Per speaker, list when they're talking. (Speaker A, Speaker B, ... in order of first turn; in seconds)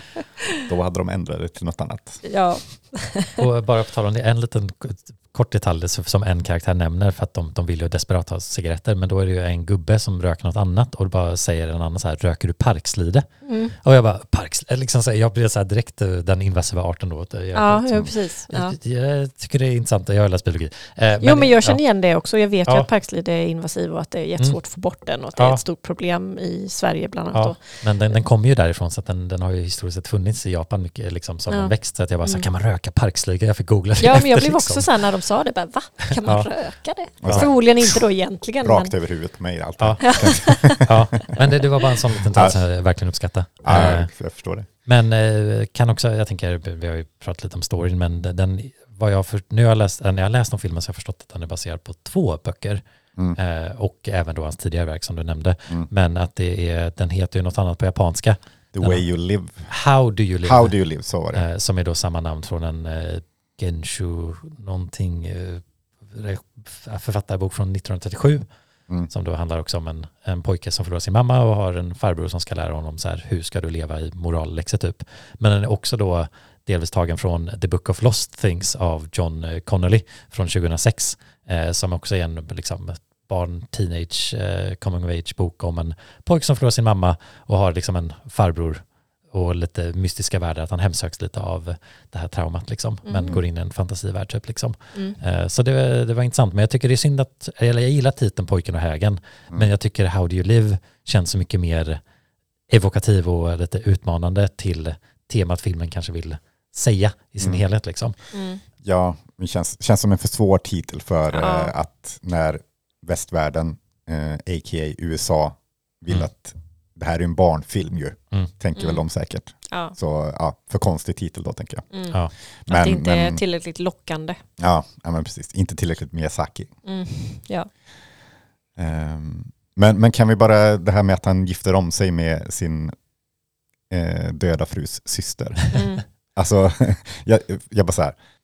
Speaker A: 0.7-2.2, 37.2-37.7, 38.6-41.0, 42.2-42.5, 43.6-44.7, 58.7-59.7, 60.4-61.4, 108.8-121.9, 122.7-123.4, 124.6-126.7, 128.8-132.9, 133.9-135.8, 136.3-138.2
Speaker B: 2.2-3.4, 13.4-13.7, 17.5-18.8, 21.2-27.6, 31.5-32.5, 34.0-38.9, 40.0-40.8, 93.0-93.4, 108.3-108.6, 111.3-111.7, 118.8-119.0, 119.7-119.9, 121.9-124.4, 126.8-127.7, 135.7-136.0
Speaker C: 3.4-21.8, 25.3-25.6, 27.3-34.9, 36.2-36.5, 37.2-37.5, 39.8-44.1, 44.9-52.8, 53.4-59.0, 59.7-60.7, 61.3-68.5, 69.1-102.0, 102.7-108.1